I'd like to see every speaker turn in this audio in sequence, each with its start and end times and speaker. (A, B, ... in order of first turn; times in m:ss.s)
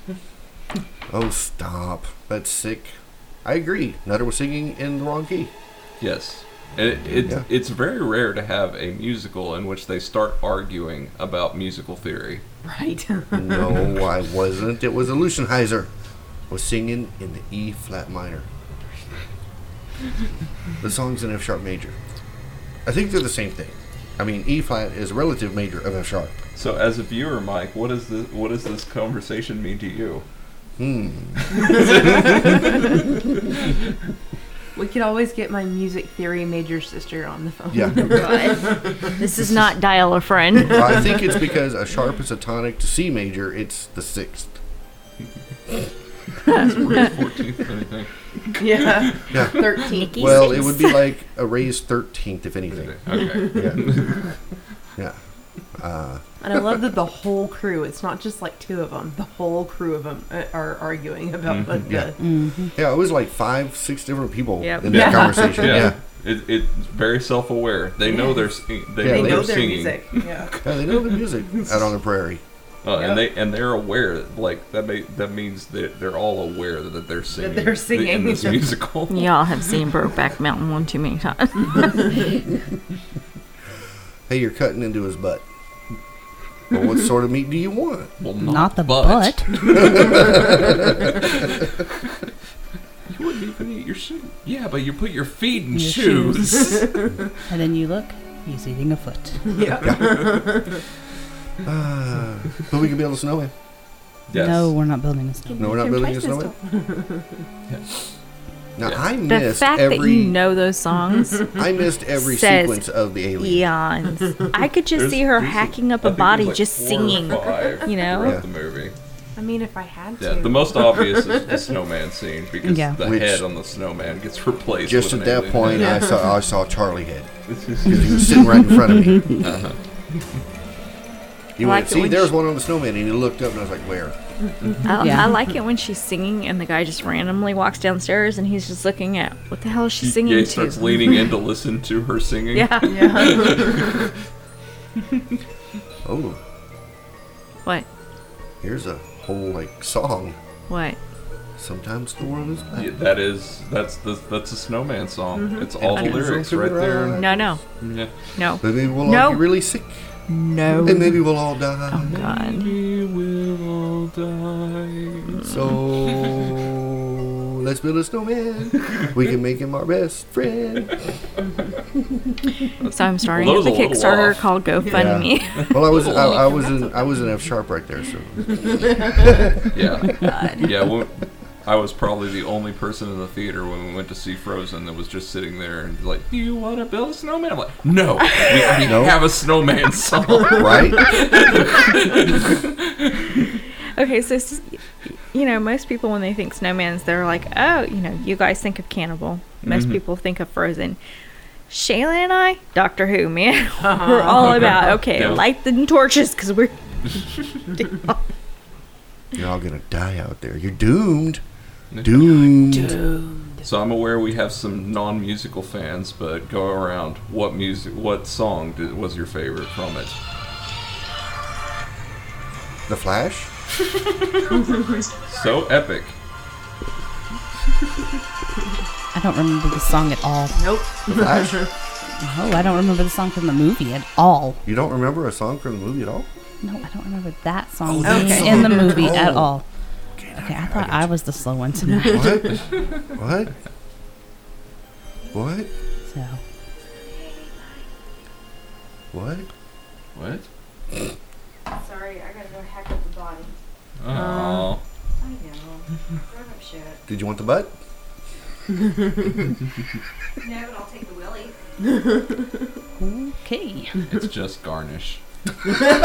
0:01.1-0:05.5 A
0:06.0-0:12.4 B
0:12.6-0:14.0 C
0:13.3-0:15.9 A
0:16.5-0:18.5 A
0:20.8-0:22.0 A
0:22.8-0:26.3 A
0:26.5-0:30.2 B
0:30.8-0:31.5 A
0:31.4-0:32.8 B
0:34.7-0:39.1 C
0:37.7-0:38.2 A
0:38.1-0:41.1 D
0:40.6-0:44.6 A
0:46.5-0:49.6 B
0:48.6-0:50.7 C
0:49.3-0:53.9 A
0:49.9-0:51.0 D
0:52.8-0:54.3 B
0:55.7-0:56.2 A
0:56.4-1:02.2 C
1:01.4-1:01.8 B
1:01.8-1:02.1 A
1:02.2-1:02.7 E
1:02.7-1:06.0 A
1:04.6-1:05.0 D
1:04.8-1:11.8 B
1:04.8-1:05.9 C
1:08.0-1:08.4 C
1:09.0-1:09.6 A
1:09.0-1:10.6 C
1:10.6-1:12.4 A
1:12.8-1:19.4 B
1:12.9-1:13.2 C
1:17.4-1:18.8 C
1:19.1-1:22.1 D
1:24.3-1:25.4 A
1:26.7-1:28.1 A
1:28.2-1:31.7 B
1:28.4-1:29.7 E
1:29.8-1:30.8 A
1:33.1-1:37.0 B
1:35.7-1:36.8 E
1:37.5-1:39.5 E
1:39.5-1:40.8 C
1:39.8-1:40.2 A
1:41.6-1:43.5 A
1:44.3-1:44.7 B
1:44.3-1:45.8 E
1:45.5-1:46.1 C
1:45.6-1:46.5 A
1:45.7-1:46.5 D
1:46.6-1:47.4 C
1:48.8-1:50.4 A
1:49.3-1:51.6 D
1:51.6-1:53.7 A
1:52.2-1:52.8 D
1:53.4-1:58.4 D
1:54.9-1:58.9 B
1:59.4-2:01.6 C
2:00.2-2:06.0 B
2:02.6-2:03.0 E
2:03.0-2:03.4 A
2:04.8-2:07.3 A
2:05.7-2:06.2 C
2:07.5-2:08.8 B
2:07.8-2:09.4 A
2:09.4-2:09.8 B
2:11.6-2:14.2 A
2:11.6-2:12.3 D
2:14.8-2:21.2 D
2:15.0-2:15.3 E
2:20.0-2:24.1 B
2:22.5-2:23.0 D
2:22.8-2:24.0 C
2:26.0-2:26.4 A
2:28.6-2:30.4 A
2:30.7-2:31.0 D
2:31.6-2:32.9 A
2:32.7-2:37.2 B
2:35.4-2:35.6 C
2:35.8-2:37.6 A
2:37.1-2:37.6 D
2:37.8-2:38.3 B
2:38.4-2:39.4 D
2:38.6-2:40.1 A
2:40.3-2:41.2 D
2:40.8-2:42.2 A
2:41.9-2:42.8 D
2:42.1-2:45.4 B
2:45.3-2:45.7 D
2:45.4-2:51.0 A
2:46.2-2:46.5 B
2:52.8-2:54.5 B
2:52.8-2:56.2 D
2:54.8-2:55.1 C
2:54.9-2:59.5 A
2:55.6-2:56.6 B
2:59.7-3:13.4 B
3:00.2-3:00.7 D
3:08.8-3:09.2 A
3:10.5-3:11.1 A
3:13.9-3:21.0 D
3:19.6-3:20.0 B
3:21.7-3:28.2 D
3:23.8-3:25.0 C
3:24.3-3:25.4 B
3:29.3-3:31.4 A
3:31.9-3:32.5 B
3:32.0-3:33.0 A
3:32.8-3:33.6 C
3:33.6-3:40.2 B
3:42.9-3:43.5 A
3:45.3-3:46.2 B
3:49.1-3:50.6 E
3:50.5-3:51.7 C
3:51.1-3:51.7 A
3:52.2-3:54.6 E
3:54.6-3:56.3 A
3:56.6-3:59.6 E
3:57.8-3:59.6 A
3:58.0-3:59.1 C
4:00.2-4:01.1 A
4:00.3-4:02.5 E
4:02.1-4:03.5 A
4:05.3-4:05.7 A
4:06.1-4:06.4 E
4:07.0-4:07.9 D
4:09.1-4:09.5 A
4:10.1-4:10.5 B
4:11.7-4:13.6 D
4:14.0-4:14.8 B
4:14.1-4:14.7 C
4:15.2-4:17.0 D
4:17.1-4:17.7 A
4:20.4-4:21.6 D
4:23.0-4:24.0 E
4:24.1-4:25.2 B